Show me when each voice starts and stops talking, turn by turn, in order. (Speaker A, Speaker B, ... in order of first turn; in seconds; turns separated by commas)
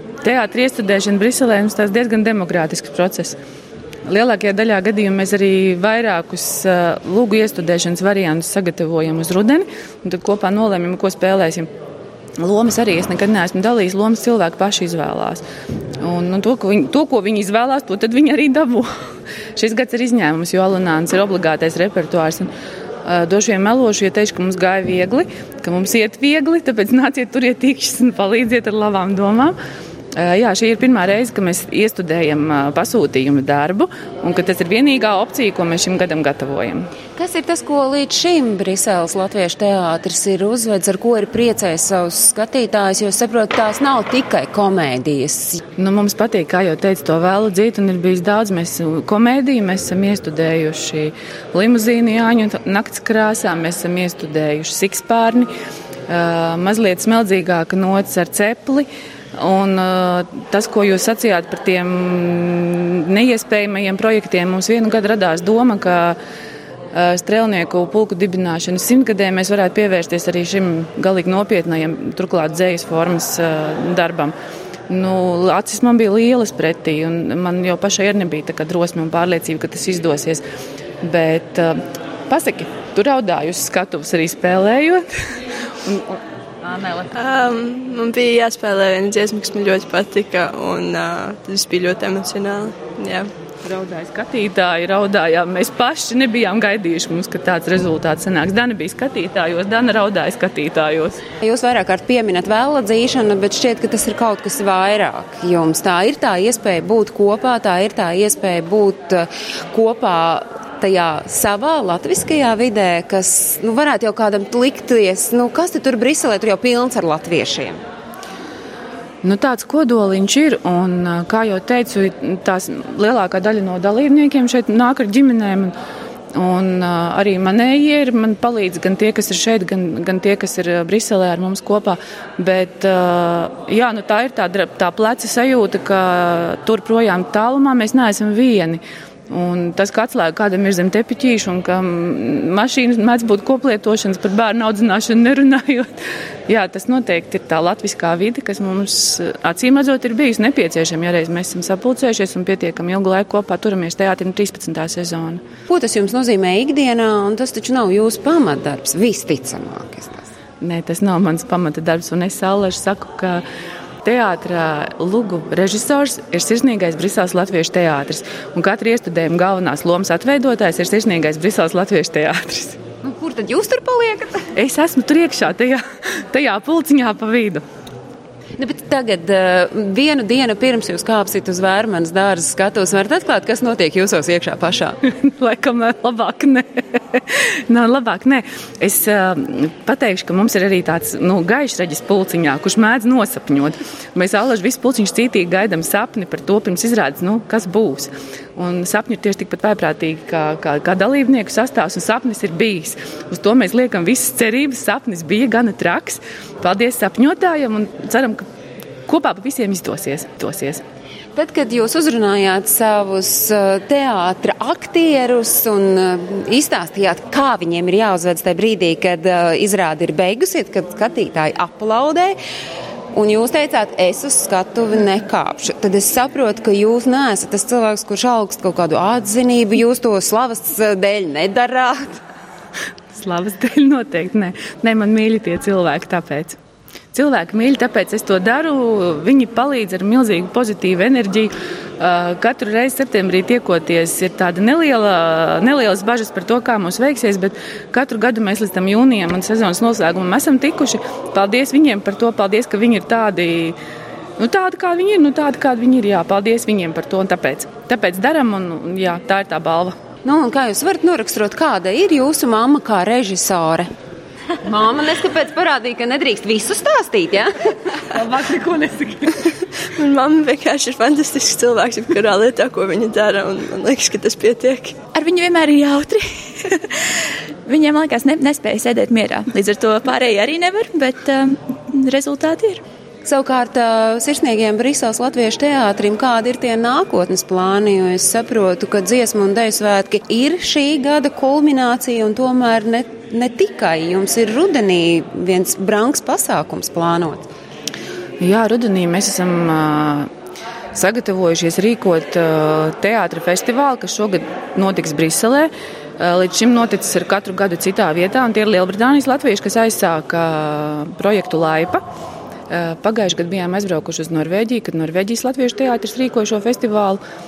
Speaker A: 0.2-3.4, Speaker A: 4.1-11.7, Speaker A: 12.4-15.4, Speaker A: 16.0-18.9, Speaker A: 19.6-22.5, Speaker A: 23.0-29.6, Speaker A: 30.1-36.9, Speaker B: 37.1-45.6, Speaker A: 45.8-55.5, Speaker A: 56.1-66.2, Speaker A: 66.9-74.3, Speaker A: 74.9-80.4, Speaker A: 81.0-85.0, Speaker A: 85.8-87.1, Speaker C: 87.1-93.3, Speaker A: 93.6-101.2, Speaker B: 101.4-117.8, Speaker A: 119.2-125.7, Speaker A: 126.3-145.9, Speaker A: 146.5-155.4, Speaker B: 155.7-160.3, Speaker A: 160.6-163.4, Speaker A: 164.0-172.8, Speaker B: 173.0-174.5, Speaker A: 174.5-177.6, Speaker B: 178.6-185.0, Speaker A: 185.1-208.4, Speaker A: 209.1-210.8, Speaker B: 211.3-222.4, Speaker B: 223.1-232.2, Speaker A: 233.1-236.6, Speaker A: 237.1-253.8, Speaker A: 254.4-259.9, Speaker B: 260.2-263.9, Speaker B: 264.6-267.7, Speaker A: 268.1-269.2, Speaker C: 269.8-275.0, Speaker D: 275.1-277.0, Speaker D: 277.6-282.8, Speaker B: 283.2-297.5, Speaker A: 298.4-300.3, Speaker A: 300.9-312.0, Speaker A: 312.7-317.2